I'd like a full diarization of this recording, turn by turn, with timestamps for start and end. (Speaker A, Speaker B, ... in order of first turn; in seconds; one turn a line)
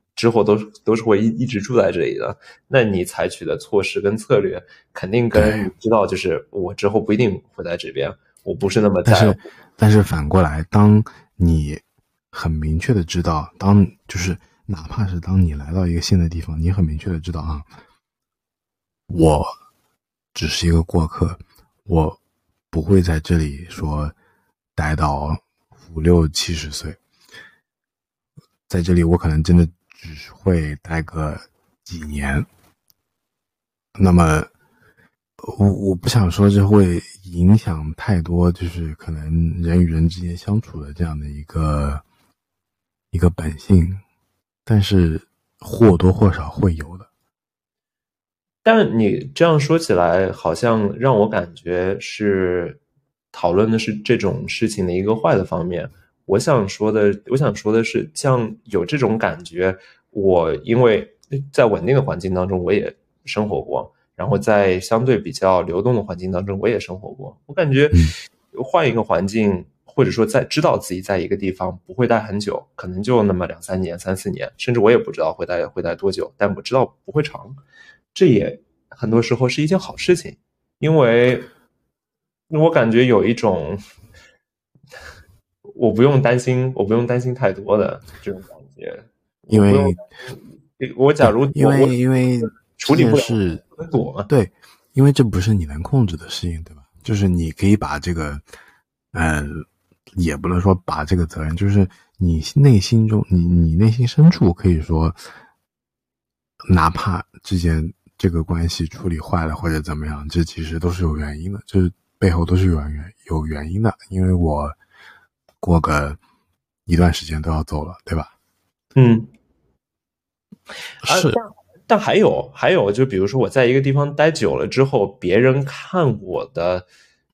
Speaker A: 0.2-9.4
Speaker B: 5.3-5.7
Speaker B: 9.1-17.7
Speaker B: 19.1-19.6
Speaker B: 20.3-22.2
Speaker B: 22.7-24.1
Speaker B: 24.8-27.0
Speaker B: 28.7-32.5
Speaker B: 34.0-34.5
Speaker B: 35.4-42.0
Speaker B: 43.1-44.0
Speaker B: 44.7-47.1
Speaker A: 48.6-52.8
Speaker A: 53.3-77.6
Speaker A: 78.2-81.5
Speaker A: 82.5-83.8
Speaker A: 85.7-91.9
Speaker B: 89.5-90.0
Speaker B: 91.2-93.6
Speaker A: 92.5-94.3
Speaker B: 94.3-98.4
Speaker B: 99.1-99.7
Speaker B: 100.2-105.2
Speaker B: 106.7-114.8
Speaker B: 115.6-116.2
Speaker B: 116.9-118.3
Speaker A: 119.0-119.3
Speaker B: 121.0-121.4
Speaker A: 121.0-126.9